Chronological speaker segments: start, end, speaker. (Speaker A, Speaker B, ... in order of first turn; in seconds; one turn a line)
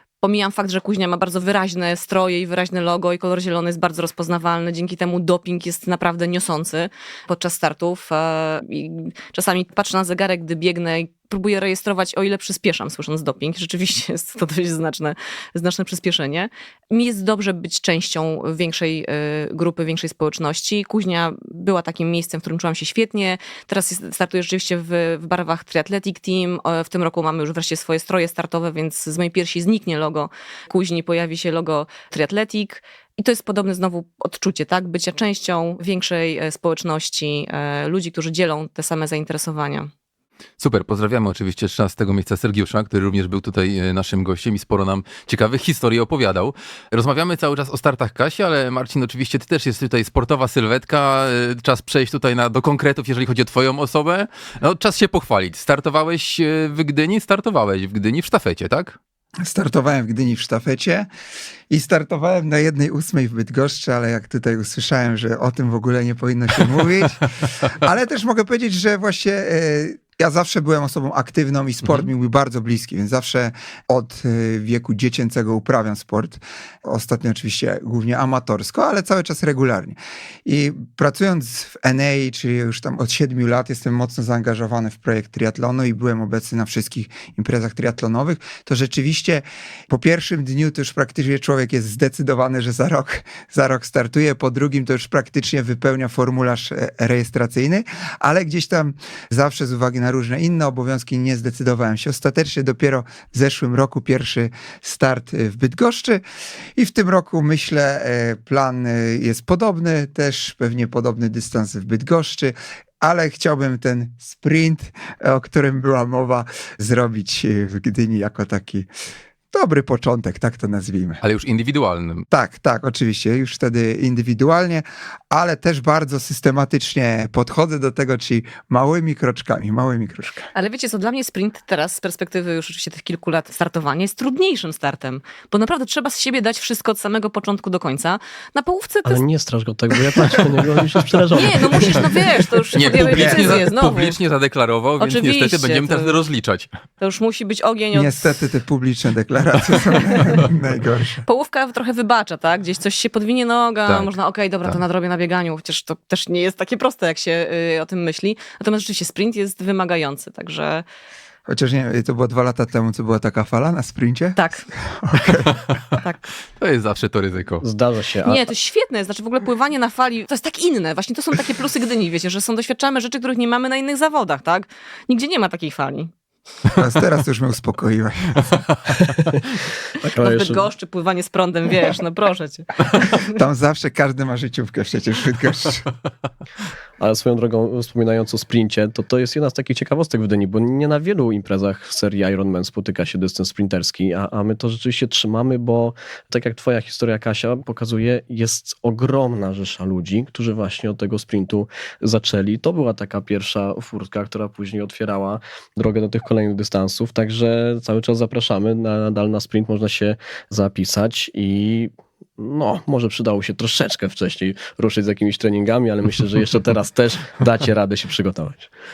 Speaker A: 0.2-39.9
Speaker B: 40.6-59.0
Speaker C: 59.5-61.1
Speaker C: 61.7-106.2
Speaker C: 106.8-118.9
Speaker C: 119.5-121.2
Speaker B: 121.2-122.2
Speaker C: 122.3-130.5
Speaker A: 130.5-139.2
Speaker D: 139.1-142.2
Speaker A: 141.3-144.1
Speaker B: 142.7-146.7
Speaker C: 143.1-143.6
Speaker A: 145.0-146.2
Speaker A: 147.0-148.2
Speaker C: 147.9-151.2
Speaker A: 151.2-160.8
Speaker B: 153.9-154.1
Speaker C: 161.5-165.6
Speaker A: 164.3-164.7
Speaker B: 166.6-167.6
Speaker D: 167.6-168.4
Speaker A: 168.2-176.1
Speaker C: 176.8-178.4
Speaker D: 179.1-180.7
Speaker A: 180.2-183.3
Speaker C: 183.3-185.9
Speaker D: 187.0-218.7